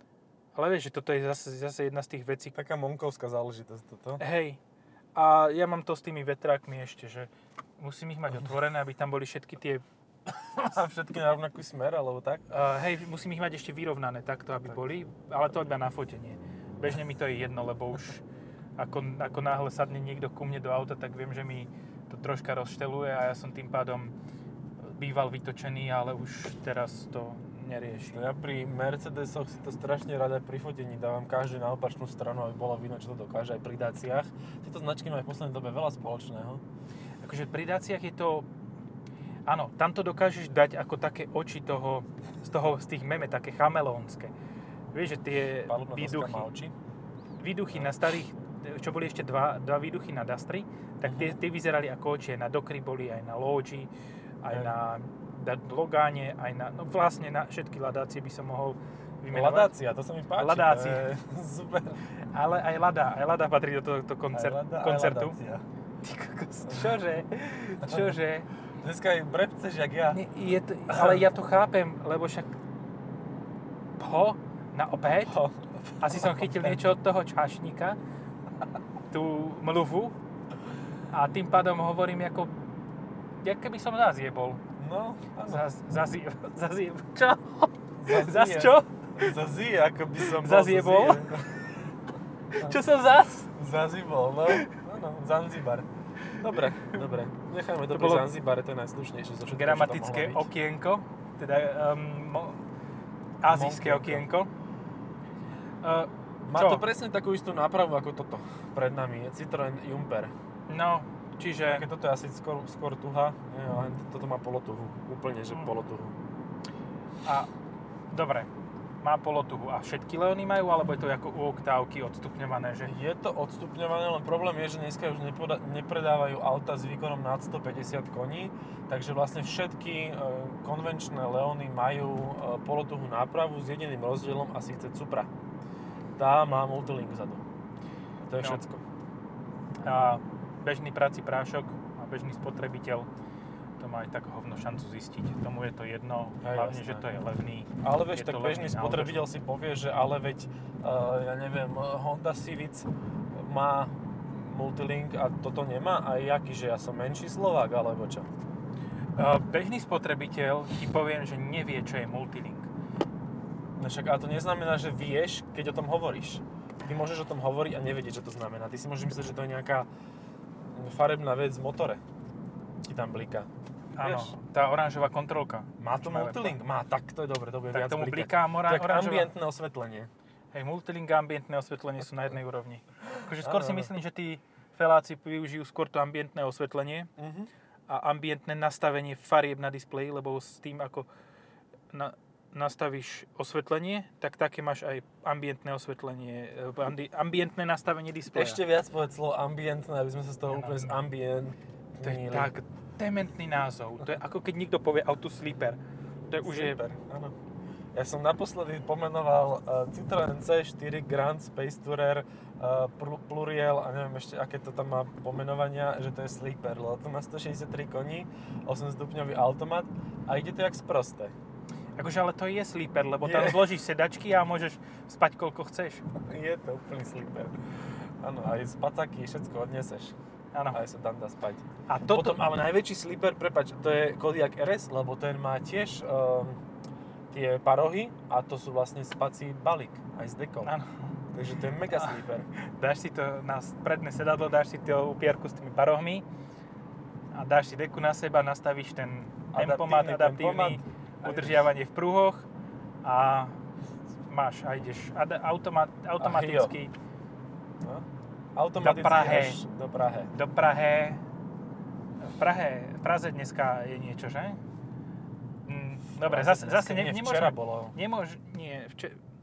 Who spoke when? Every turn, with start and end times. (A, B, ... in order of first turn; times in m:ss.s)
0:00.5-0:02.6 A
0:02.5-0:04.2 B
0:04.2-0:04.6 A
0:05.1-0:09.8 A
0:10.4-0:12.5 B
0:12.5-0:18.2 A
0:18.8-0:24.1 A
0:24.9-0:28.2 A
0:27.9-0:36.6 B
0:37.2-0:38.5 A
0:39.4-0:44.3 A
0:44.9-0:46.5 A
0:45.6-0:46.7 B
0:47.4-0:53.9 A
0:51.0-0:51.4 B
0:54.4-0:59.8 A
0:54.5-0:54.8 B
0:59.3-1:02.0 B
1:00.4-1:01.1 A
1:02.2-1:05.4 A
1:04.3-1:05.6 B
1:06.0-1:08.5 A
1:07.8-1:08.1 B
1:08.8-1:10.2 B
1:10.1-1:12.6 A
1:10.9-1:11.2 B
1:14.0-1:15.4 A
1:15.2-1:16.8 B
1:16.0-1:18.0 A
1:19.1-1:20.2 A
1:21.1-1:22.5 A
1:23.4-1:24.6 A
1:24.8-1:25.7 B
1:25.5-1:29.4 A
1:28.0-1:31.9 B
1:30.2-1:31.3 A
1:32.5-1:33.5 A
1:33.5-1:40.5 B
1:34.5-1:34.7 A
1:37.9-1:38.3 A
1:39.5-1:42.6 A
1:43.4-1:44.5 A
1:43.5-1:44.3 B
1:45.8-1:46.8 A
1:46.5-1:50.3 B
1:50.7-1:51.9 A
1:51.6-1:56.2 B
1:58.1-1:58.5 A
1:59.0-2:02.9 A
2:02.8-2:15.3 B
2:16.1-2:17.4 B
2:18.2-2:18.8 B
2:19.8-2:23.1 A
2:23.8-2:29.3 A
2:26.4-2:27.2 B
2:27.8-2:38.3 B
2:39.2-2:42.7 A
2:43.8-2:49.9 B
2:50.7-2:52.0 B
2:52.8-2:53.5 B
2:54.0-2:56.6 A
2:54.0-2:54.3 B
2:55.8-3:00.1 B
2:57.7-2:59.3 A
3:00.5-3:07.1 A
3:03.4-3:03.9 B
3:07.2-3:07.5 B
3:07.9-3:11.1 A
3:11.9-3:18.6 A
3:18.3-3:22.5 B
3:20.5-3:20.9 A
3:22.0-3:26.8 A
3:26.4-3:27.3 B
3:27.9-3:41.3 B
3:42.0-3:46.0 A
3:43.2-3:43.8 B
3:46.2-3:47.6 B
3:48.2-3:50.1 B
3:50.5-3:50.8 A
3:50.7-3:56.6 B
3:51.9-3:52.4 A
3:57.3-4:00.7 B
4:00.6-4:00.9 A
4:01.3-4:02.5 B
4:01.7-4:06.2 A
4:07.3-4:12.4 A
4:09.5-4:11.7 B
4:13.0-4:13.6 A
4:14.3-4:16.9 A
4:16.2-4:16.8 B
4:17.8-4:20.3 B
4:18.8-4:19.6 A
4:20.3-4:21.2 A
4:22.2-4:24.6 A
4:25.6-4:29.2 A
4:26.2-4:28.0 B